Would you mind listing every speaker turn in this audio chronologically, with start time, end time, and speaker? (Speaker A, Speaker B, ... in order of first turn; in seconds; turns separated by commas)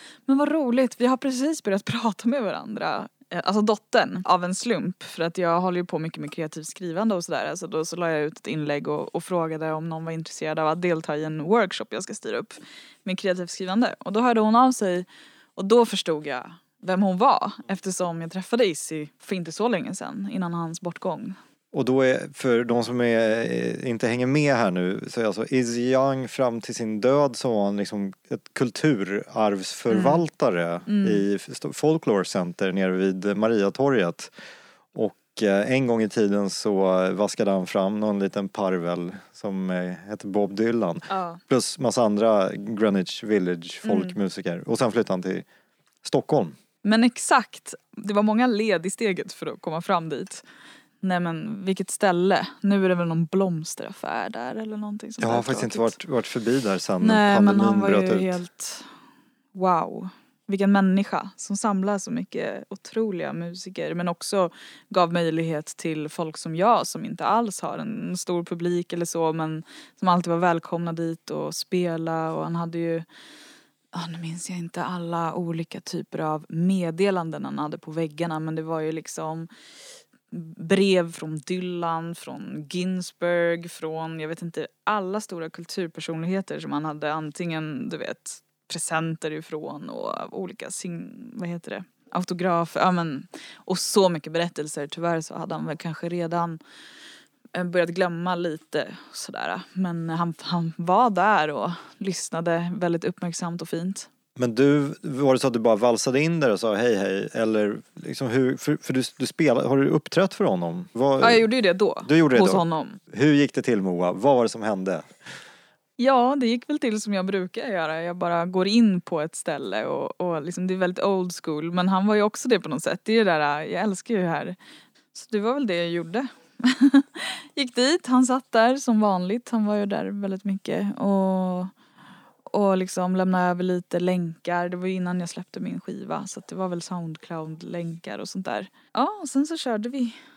Speaker A: 0.3-21.4, Speaker B: 21.7-34.3, Speaker A: 29.9-30.2, Speaker A: 30.9-31.2, Speaker B: 34.9-45.5, Speaker A: 41.1-41.4, Speaker A: 43.8-44.1, Speaker B: 46.0-46.5, Speaker A: 46.8-50.4, Speaker A: 51.0-56.0, Speaker B: 55.2-58.4, Speaker A: 57.0-58.9, Speaker A: 59.5-73.0, Speaker A: 73.9-79.5, Speaker A: 80.3-96.6, Speaker A: 97.5-104.1, Speaker B: 104.3-111.5, Speaker A: 111.2-113.0, Speaker B: 112.0-115.1, Speaker A: 116.0-124.6, Speaker A: 125.1-131.7, Speaker A: 132.5-140.2